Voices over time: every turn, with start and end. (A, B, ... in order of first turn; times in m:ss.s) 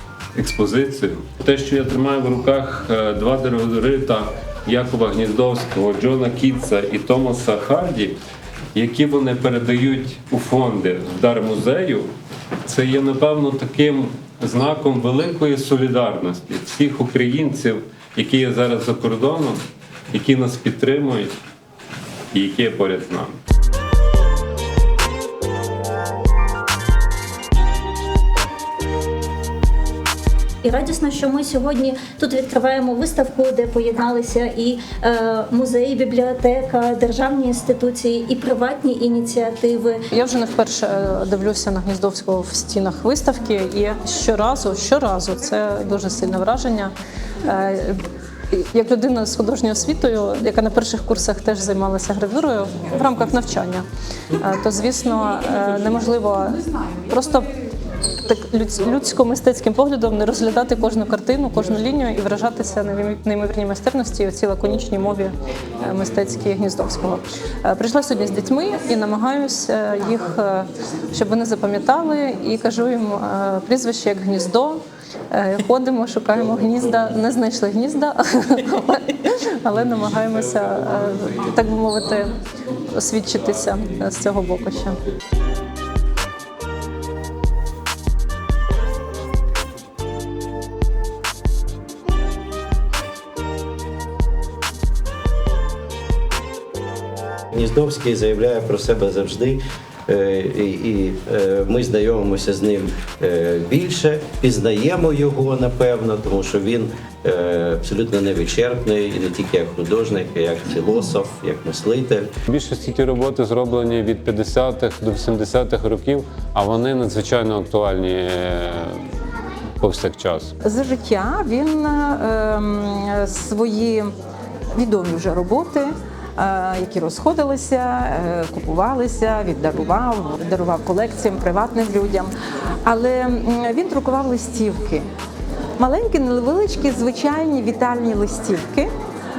0:00.4-0:08.2 A
0:08.7-0:12.1 A
0:12.6-0:19.6 A
0:20.1-0:21.3 A
0:22.3-0:23.3 A
0:30.6-0:40.0 B
0:40.1-0:46.9 C
0:47.4-0:53.8 C
0:54.4-0:57.5 C
0:58.2-1:22.3 C
1:22.9-1:25.0 C
1:37.5-1:52.3 D
1:52.5-1:59.0 A
1:59.8-2:00.5 A
2:00.6-2:04.1 E
2:04.8-2:12.3 E
2:12.8-2:15.0 E
2:15.8-2:18.9 E